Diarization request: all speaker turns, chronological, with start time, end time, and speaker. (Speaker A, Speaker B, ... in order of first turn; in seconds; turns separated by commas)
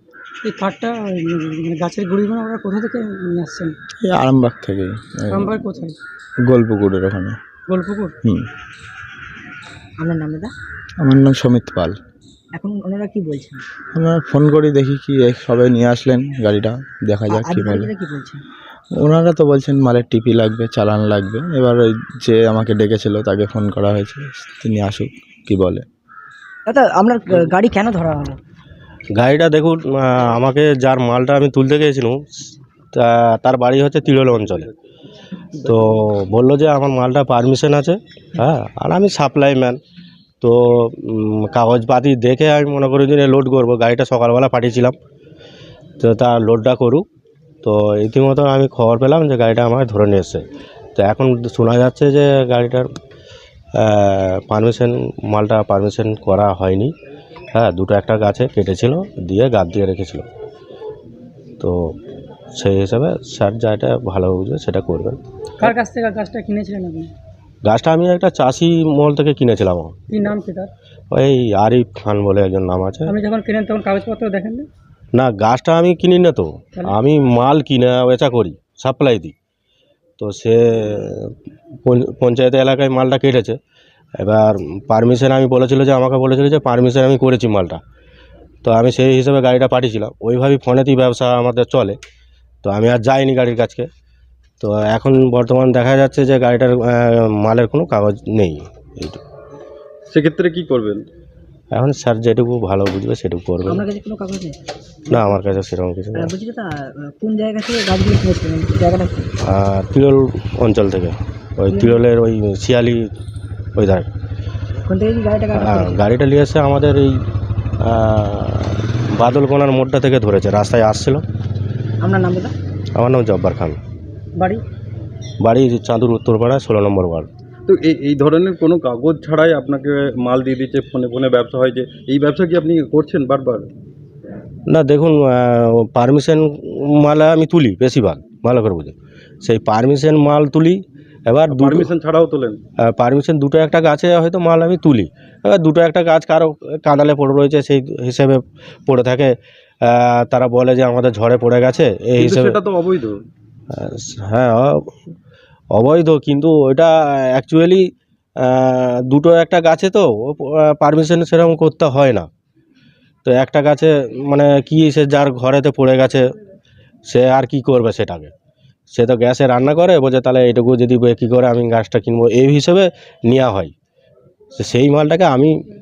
Speaker A: 0.5-3.8, Speaker B: 4.0-5.5, Speaker A: 5.3-6.0, Speaker B: 6.5-7.4, Speaker A: 7.7-8.1, Speaker C: 10.0-10.5, Speaker B: 11.0-11.9, Speaker C: 12.6-13.6, Speaker B: 13.9-17.9, Speaker C: 17.3-18.4, Speaker B: 19.0-25.8, Speaker C: 26.7-28.4, Speaker D: 29.1-32.2, Speaker D: 32.9-34.7, Speaker D: 35.6-39.8, Speaker D: 40.4-45.0, Speaker D: 46.0-47.0, Speaker D: 47.6-50.4, Speaker D: 51.0-52.9, Speaker D: 53.8-56.9, Speaker D: 57.5-60.3, Speaker D: 61.6-62.0, Speaker D: 62.5-65.2, Speaker A: 65.6-67.1, Speaker D: 67.6-70.0, Speaker A: 70.1-70.7, Speaker D: 71.1-73.1, Speaker A: 73.1-74.7, Speaker D: 75.1-79.3, Speaker D: 80.2-81.3, Speaker D: 81.8-83.6, Speaker D: 84.2-87.8, Speaker D: 88.6-92.0, Speaker D: 92.6-93.9, Speaker D: 94.6-99.2, Speaker E: 100.1-101.0, Speaker D: 101.7-103.8, Speaker C: 103.7-104.6, Speaker D: 105.1-106.3, Speaker C: 106.2-109.3, Speaker D: 109.4-113.1, Speaker C: 111.7-112.0, Speaker D: 113.8-114.1, Speaker C: 114.9-115.9, Speaker D: 115.5-117.1, Speaker D: 117.8-121.2, Speaker C: 122.0-122.5, Speaker D: 123.0-123.8, Speaker A: 124.4-124.6, Speaker D: 125.4-127.3, Speaker E: 127.7-133.7, Speaker D: 134.7-141.9, Speaker E: 141.5-142.6, Speaker D: 142.8-152.6, Speaker E: 152.2-153.2, Speaker D: 153.7-154.9, Speaker D: 155.7-162.3, Speaker D: 163.2-166.2, Speaker D: 167.1-168.3, Speaker D: 168.9-173.7, Speaker D: 174.6-175.5